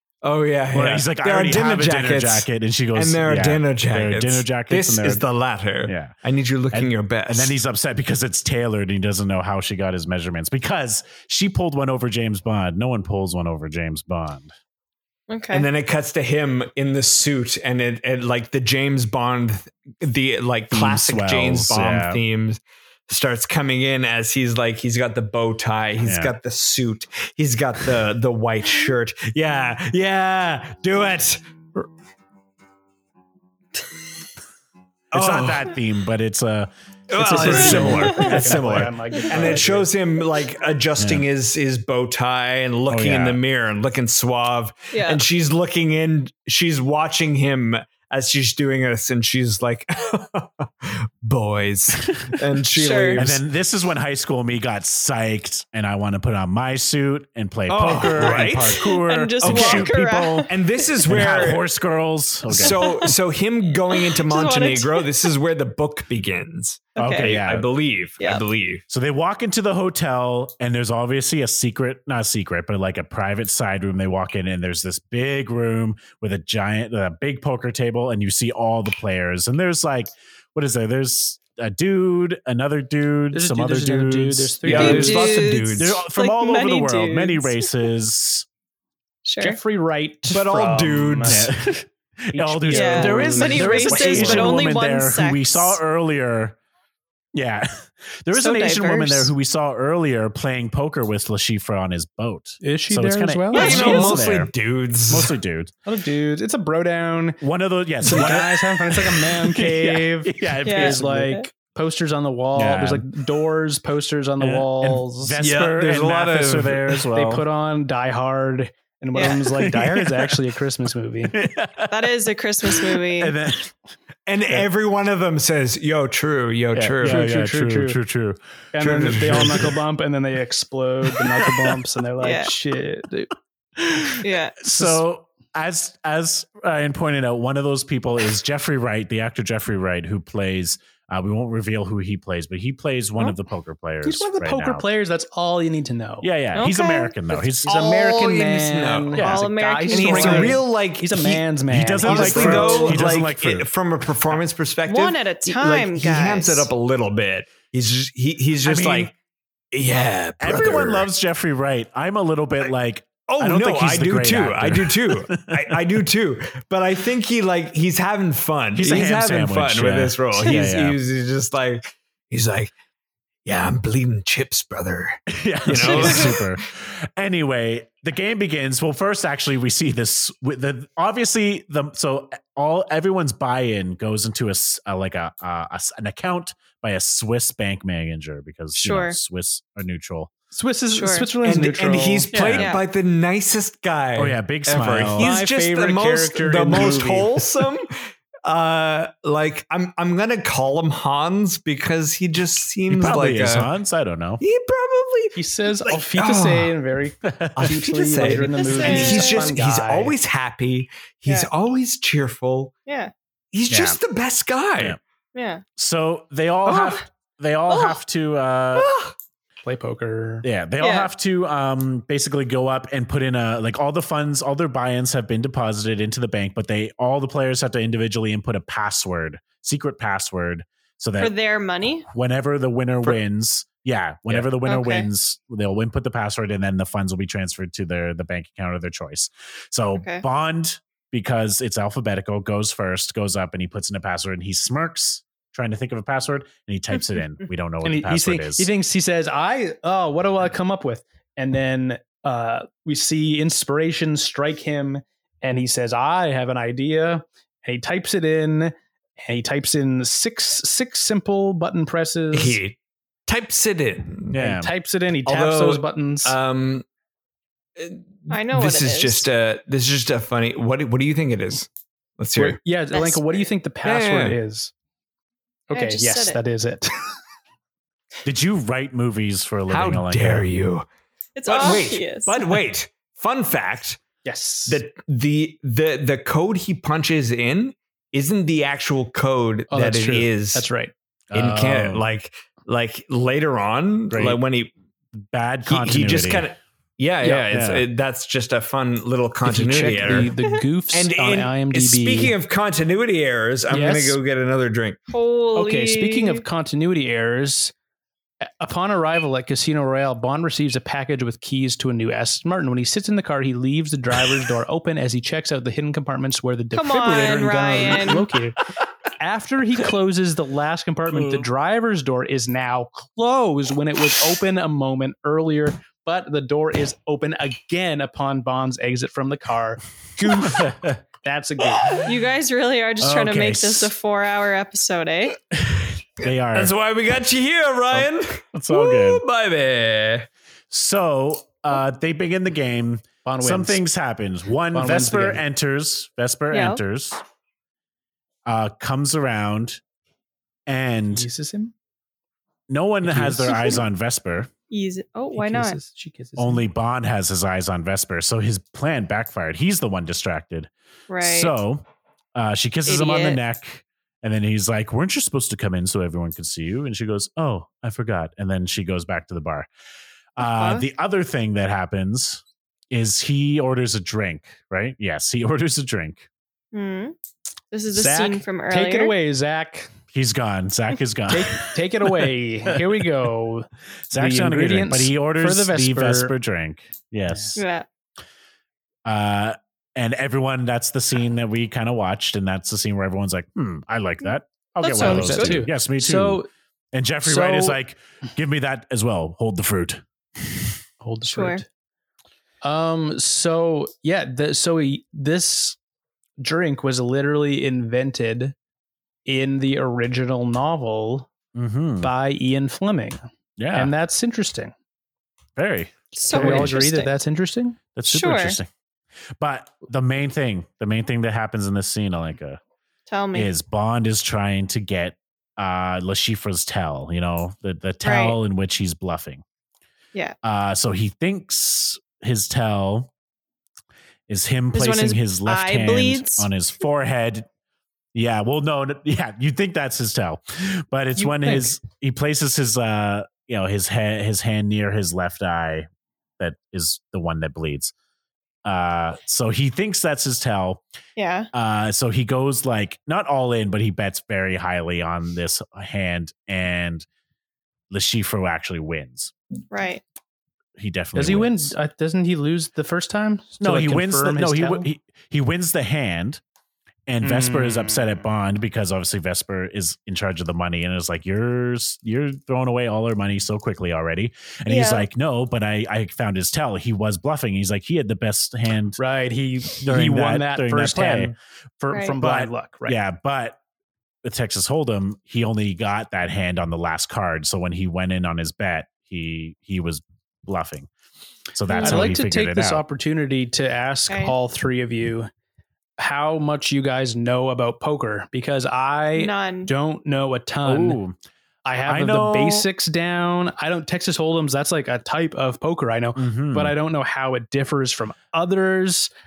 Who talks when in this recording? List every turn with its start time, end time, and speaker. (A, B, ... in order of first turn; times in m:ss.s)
0:00.2-0:07.6 A
0:00.7-0:05.2 B
0:05.9-0:06.2 B
0:06.7-0:14.5 B
0:15.3-0:15.7 C
0:15.5-0:31.9 A
0:20.7-0:22.2 B
0:26.0-0:26.3 B
0:35.1-0:35.7 A
0:35.1-0:38.9 B
0:37.1-0:53.4 A
0:37.2-0:39.9 D
0:37.7-0:38.4 C
0:41.0-0:41.2 B
0:42.9-0:43.4 B
0:44.9-0:45.2 C
0:52.7-0:53.3 C
0:53.2-1:00.5 B
0:57.7-0:58.8 A
0:58.1-1:01.0 C
0:59.4-0:59.9 A
1:00.5-1:01.6 A
1:01.0-1:02.8 B
1:02.5-1:03.2 C
1:02.5-1:08.8 A
1:03.9-1:05.1 C
1:07.0-1:07.4 C
1:07.0-1:07.7 B
1:08.9-1:25.2 B
1:23.3-1:25.5 D
1:24.6-1:26.0 A
1:24.7-1:27.7 C
1:25.8-1:28.5 B
1:29.2-1:29.6 C
1:29.4-1:31.5 D
1:30.3-1:31.5 A
1:31.2-1:36.6 B
1:32.3-1:34.8 D
1:32.7-1:35.8 C
1:37.3-1:44.5 B
1:38.3-1:39.3 C
1:42.6-1:44.2 D
1:43.5-1:44.2 C
1:43.5-1:45.3 A
1:45.1-1:45.7 B
1:45.9-1:47.4 D
1:47.4-1:51.4 B
1:48.0-1:55.4 D
1:50.6-1:51.5 C
1:52.5-1:53.1 B
1:54.4-1:57.4 B
1:55.4-1:57.0 A
1:57.1-2:01.4 D
1:59.1-1:59.6 C
1:59.5-2:00.4 B
2:01.3-2:03.7 B
2:01.9-2:03.4 C
2:04.3-2:07.3 A
2:06.8-2:08.4 B
2:07.0-2:08.0 D
2:08.7-2:13.3 D
2:08.8-2:09.7 A
2:09.3-2:09.7 B
2:11.1-2:11.8 B
2:12.2-2:12.5 C
2:13.8-2:24.9 B
2:14.2-2:14.6 C
2:14.8-2:15.0 D
2:24.0-2:26.3 D
2:26.2-2:27.8 B
2:26.5-2:27.2 C
2:27.6-2:33.0 D
2:27.7-2:29.2 A
2:29.2-2:29.4 B
2:29.2-2:30.6 C
2:29.9-2:31.4 A
2:31.7-2:33.7 B
2:32.0-2:39.1 A
2:34.9-2:36.7 C
2:38.6-2:39.1 B
2:39.7-2:41.1 A
2:40.4-2:45.8 B
2:43.3-2:52.7 A
2:48.8-2:51.0 B
2:53.4-2:56.6 A
2:55.3-3:10.3 B
2:55.9-2:56.3 C
3:08.7-3:09.2 C
3:10.5-3:12.4 D
3:10.9-3:11.3 C
3:11.4-3:23.7 A
3:12.3-3:12.7 B
3:12.6-3:12.8 C
3:14.2-3:15.4 B
3:15.2-3:17.5 D
3:22.9-3:24.4 B
3:24.4-3:26.8 A
3:25.4-3:30.1 D
3:27.2-3:27.7 B
3:27.6-3:32.7 A
3:28.6-3:29.6 C
3:32.9-3:33.1 C
3:33.5-3:35.0 A
3:33.7-3:34.0 B
3:35.3-3:35.6 C
3:35.8-3:38.9 B
3:36.6-3:37.0 A
3:37.7-3:38.0 C
3:38.8-3:39.1 A
3:39.6-3:40.5 D
3:40.4-3:51.3 B
3:40.8-3:41.1 C
3:51.2-3:52.1 C
3:52.1-4:08.7 B
3:54.7-3:55.1 C
4:00.0-4:00.2 C
4:07.8-4:22.6 D
4:22.3-4:24.4 A
4:24.3-4:24.7 B
4:24.4-4:26.4 D
4:25.3-4:26.9 A
4:27.8-4:32.6 A
4:28.3-4:29.3 C
4:32.4-4:34.7 D
4:32.9-4:33.5 C
4:33.8-4:34.4 A
4:35.7-4:37.0 D
4:35.7-4:36.4 C
4:38.2-4:40.5 B
4:39.7-4:40.9 A
4:41.4-4:42.4 C
4:41.5-4:44.0 A
4:44.2-4:44.8 D
4:44.7-4:50.7 A
4:49.7-4:50.9 D
4:51.3-4:52.0 B
4:51.3-4:54.7 A
4:54.1-4:54.4 B
4:55.2-4:56.5 B
4:55.7-5:00.3 A
4:57.2-4:57.6 D
4:57.5-4:57.8 B
4:59.4-5:02.4 D
5:00.9-5:05.0 A
5:03.7-5:04.2 D
5:05.1-5:06.4 C
5:05.6-5:07.7 D
5:08.6-5:18.6 D
5:16.7-5:18.3 C
5:19.2-5:32.0 D
5:21.1-5:21.5 B
5:30.2-5:30.5 A
5:30.5-5:31.0 B
5:32.0-5:35.4 C
5:33.0-5:33.9 B
5:35.7-5:36.7 B
5:36.5-5:40.3 A
5:37.9-5:39.2 B
5:40.7-5:47.2 B
5:43.2-5:43.8 D
5:44.7-5:45.4 D
5:46.5-5:46.8 C
5:48.5-5:49.8 B
5:50.7-5:51.3 B
5:51.1-5:51.7 D
5:52.7-5:54.5 B
5:53.0-5:53.7 D
5:54.7-5:55.8 C
5:55.4-5:56.6 D
5:56.4-6:00.7 B
6:01.1-6:01.5 C
6:01.2-6:01.8 B
6:02.4-6:09.7 B
6:02.9-6:03.4 C
6:10.4-6:16.3 B
6:10.4-6:10.8 C
6:16.7-6:17.2 C
6:17.7-6:19.1 C
6:17.9-6:19.9 D
6:20.1-6:23.0 B
6:21.3-6:26.3 D
6:24.1-6:27.6 B
6:27.3-6:27.6 D
6:27.6-6:27.9 C
6:29.1-6:40.8 B
6:34.8-6:35.7 C
6:34.9-6:36.5 D
6:37.2-6:37.8 D
6:41.0-6:41.7 D
6:41.3-6:41.6 C
6:42.6-6:45.8 D
6:46.4-6:48.6 D
6:49.3-6:51.3 D
6:51.6-6:52.1 B
6:52.0-6:53.2 D
6:53.6-6:53.9 B
6:53.7-6:54.7 D
6:55.6-6:56.8 B
6:56.1-6:57.2 C
6:56.3-6:57.8 D
6:58.0-6:58.7 B
6:58.1-6:58.6 C
6:59.4-7:02.6 B
7:03.1-7:03.5 C
7:03.3-7:09.4 B
7:08.0-7:08.4 C
7:10.4-7:13.1 B
7:14.3-7:17.5 B
7:14.7-7:16.5 C
7:18.1-7:25.9 B
7:21.2-7:21.7 D
7:26.4-7:27.9 B
7:28.6-7:30.8 B
7:31.2-7:31.5 C
7:31.5-7:37.1 B
7:37.9-7:39.3 B
7:39.7-7:40.0 C
7:40.8-7:41.7 B
7:41.2-7:44.9 D
7:43.6-7:46.4 B
7:47.1-7:59.0 B
7:47.2-7:48.2 D
7:54.7-7:55.1 C
7:59.0-8:03.0 D
7:59.8-8:01.3 B
8:02.2-8:03.6 B
8:04.2-8:10.9 B
8:11.5-8:12.8 B
8:11.7-8:12.2 C
8:11.8-8:15.3 D
8:14.1-8:14.4 C
8:16.0-8:21.0 D
8:19.1-8:19.7 C
8:20.6-8:21.2 B
8:21.6-8:29.1 D
8:21.9-8:22.7 B
8:26.2-8:26.8 B